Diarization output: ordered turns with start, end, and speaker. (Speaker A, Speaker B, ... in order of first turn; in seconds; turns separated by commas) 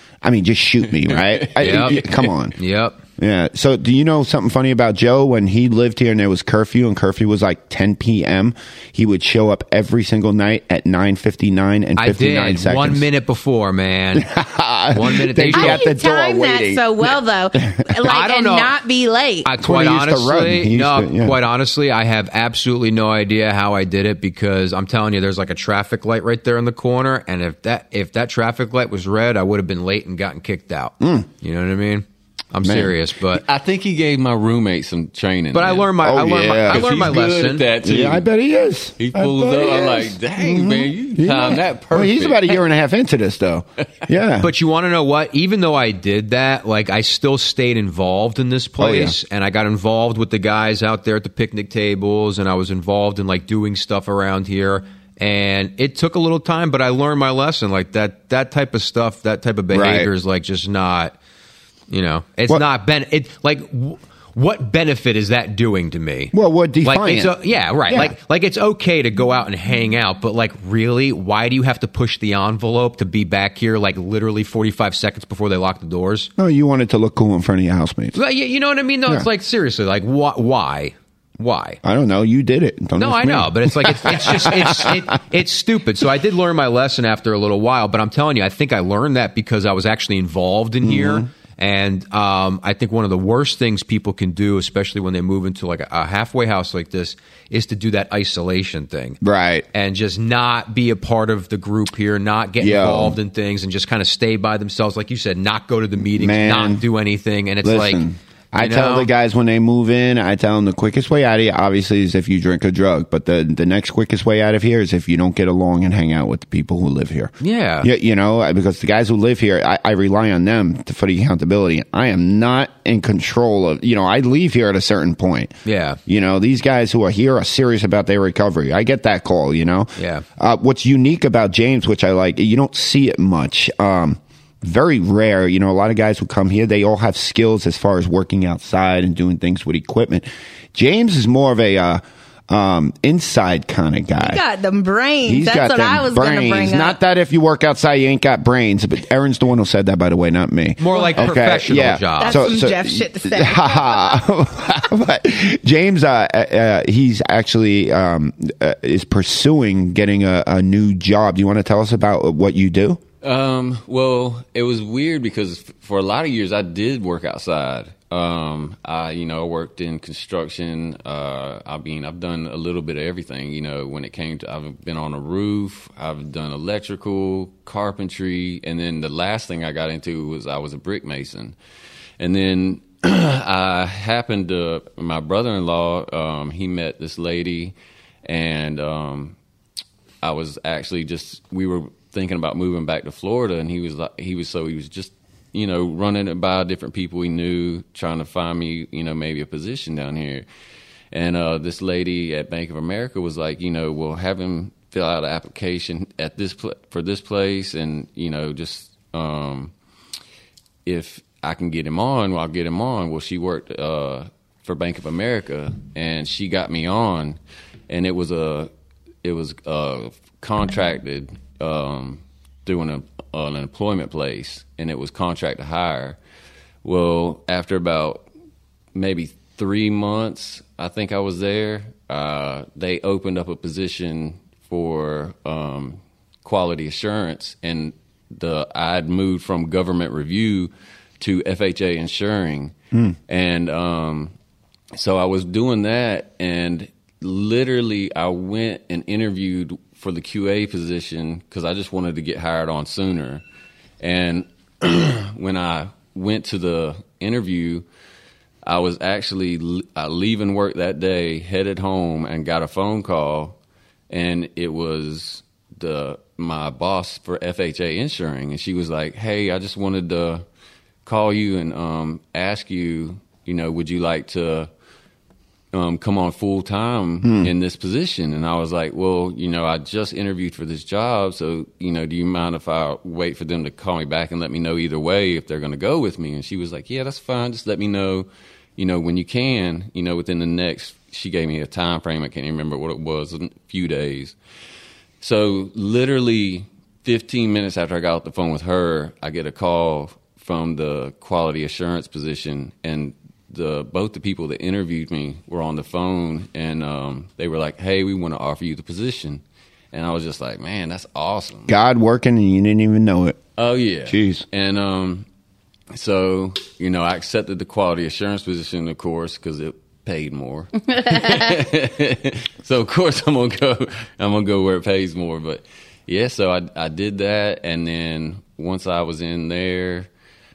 Speaker A: 0.2-2.6, Speaker B: 1.0-2.3, Speaker C: 1.6-3.0, Speaker A: 3.2-13.1, Speaker C: 12.0-14.3, Speaker A: 14.1-18.0, Speaker C: 14.9-15.8, Speaker D: 15.5-19.5, Speaker C: 18.0-18.8, Speaker C: 19.4-33.4, Speaker A: 19.6-21.4, Speaker A: 31.0-31.3, Speaker A: 32.6-32.9, Speaker B: 33.3-36.0, Speaker C: 35.5-37.7, Speaker A: 36.0-37.0, Speaker B: 36.5-38.2, Speaker A: 37.8-44.5, Speaker B: 39.0-42.6, Speaker C: 44.4-61.1, Speaker A: 48.8-49.1, Speaker A: 59.7-60.1, Speaker C: 61.9-76.3, Speaker A: 66.3-67.3, Speaker A: 67.9-68.1, Speaker A: 76.4-78.2, Speaker C: 78.1-81.8, Speaker A: 81.8-85.0, Speaker C: 83.0-99.2, Speaker A: 90.8-91.3, Speaker A: 99.2-99.7, Speaker C: 99.7-108.0, Speaker A: 102.6-103.2, Speaker A: 106.2-106.8, Speaker A: 107.6-125.5, Speaker C: 108.5-109.1, Speaker C: 117.4-117.9, Speaker C: 125.6-126.0, Speaker A: 126.1-144.4, Speaker C: 130.0-130.2, Speaker D: 144.2-147.0, Speaker A: 145.2-163.0, Speaker C: 150.8-152.5, Speaker D: 150.9-151.4, Speaker D: 152.2-154.2, Speaker B: 163.2-181.5, Speaker B: 182.2-189.3, Speaker B: 190.2-200.4, Speaker B: 201.1-209.7, Speaker B: 210.8-217.4, Speaker B: 217.9-218.7, Speaker B: 219.2-226.2, Speaker B: 226.8-228.2, Speaker B: 228.9-242.7, Speaker B: 243.3-244.3, Speaker B: 244.9-253.4, Speaker B: 254.0-257.8, Speaker B: 258.6-263.6, Speaker B: 264.1-270.4, Speaker B: 271.0-274.7, Speaker B: 275.7-294.4, Speaker A: 277.2-277.5, Speaker B: 295.2-311.7, Speaker A: 311.7-313.4, Speaker B: 313.6-315.2, Speaker A: 314.1-314.4, Speaker B: 315.9-330.1